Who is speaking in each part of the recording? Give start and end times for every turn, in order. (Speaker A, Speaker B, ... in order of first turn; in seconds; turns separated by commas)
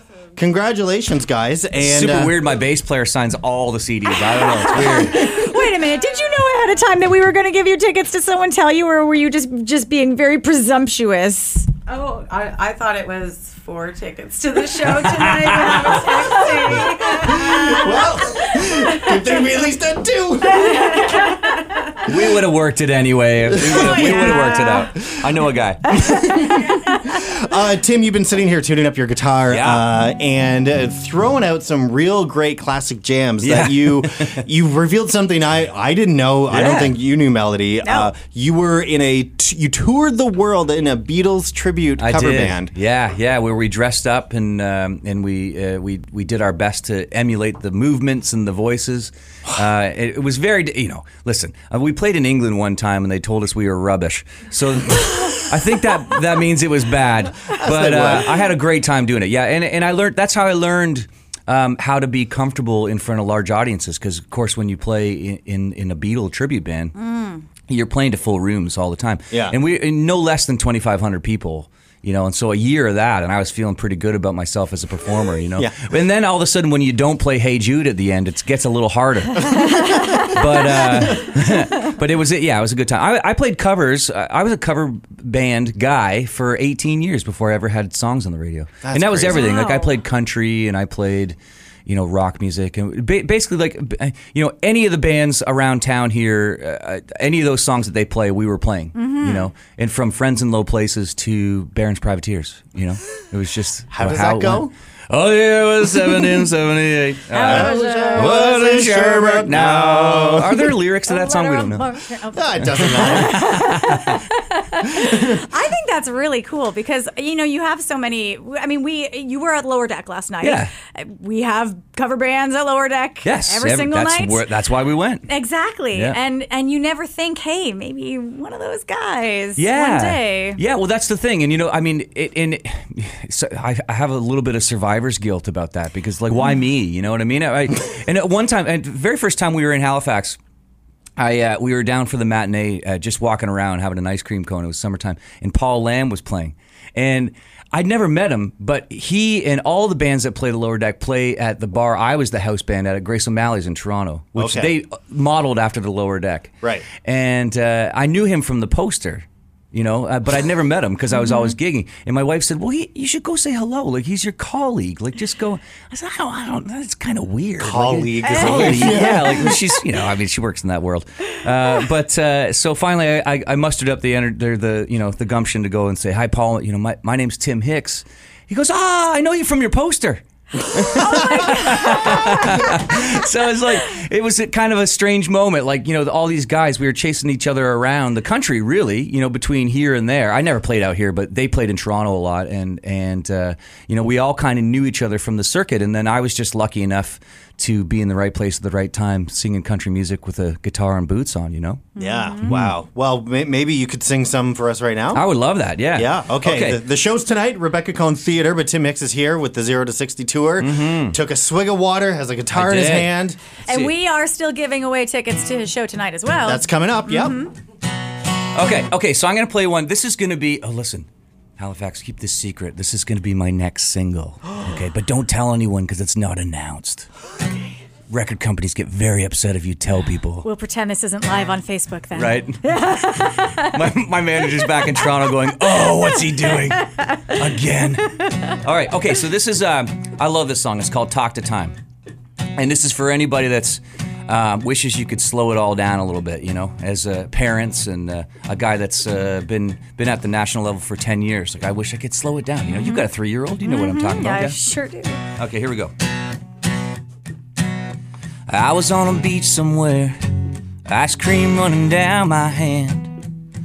Speaker A: 0.4-2.4, Speaker B: 1.8-5.5, Speaker C: 4.2-11.7, Speaker D: 11.9-18.2, Speaker B: 14.8-16.1, Speaker C: 15.8-18.1, Speaker A: 17.2-21.1, Speaker C: 20.7-21.8, Speaker B: 22.0-26.0, Speaker A: 23.6-24.1, Speaker D: 23.7-24.6, Speaker C: 24.0-24.9, Speaker A: 25.9-42.7, Speaker B: 29.5-29.9, Speaker B: 33.4-34.4, Speaker B: 36.5-37.0, Speaker C: 37.8-38.1, Speaker B: 42.0-67.0, Speaker A: 57.6-58.4, Speaker C: 67.0-67.5, Speaker B: 67.7-111.9, Speaker A: 79.5-80.1, Speaker C: 79.6-79.9, Speaker A: 88.8-89.6, Speaker C: 89.3-90.0, Speaker C: 99.0-99.5, Speaker A: 103.9-104.7, Speaker C: 107.3-108.4, Speaker A: 107.4-110.7, Speaker C: 111.1-124.5, Speaker A: 112.3-113.6, Speaker B: 112.7-114.2, Speaker B: 120.4-120.7, Speaker B: 123.2-125.3, Speaker C: 125.3-130.6, Speaker B: 125.9-126.2, Speaker B: 129.6-140.4, Speaker B: 141.2-202.8, Speaker A: 154.4-154.7, Speaker C: 161.2-161.5, Speaker A: 167.6-169.6, Speaker C: 168.2-169.5, Speaker C: 180.9-182.6, Speaker C: 201.9-202.5, Speaker A: 202.0-205.2, Speaker B: 205.1-206.8, Speaker A: 205.9-213.4, Speaker B: 210.6-211.2, Speaker B: 212.5-213.1, Speaker B: 213.7-213.9, Speaker C: 213.7-217.5, Speaker A: 216.4-217.4, Speaker B: 218.5-227.1, Speaker B: 228.1-230.5, Speaker C: 230.4-233.8, Speaker B: 232.1-241.8, Speaker B: 242.6-254.6, Speaker C: 252.7-253.0, Speaker C: 253.6-255.2, Speaker B: 255.4-255.9, Speaker B: 258.5-260.2, Speaker B: 260.9-263.1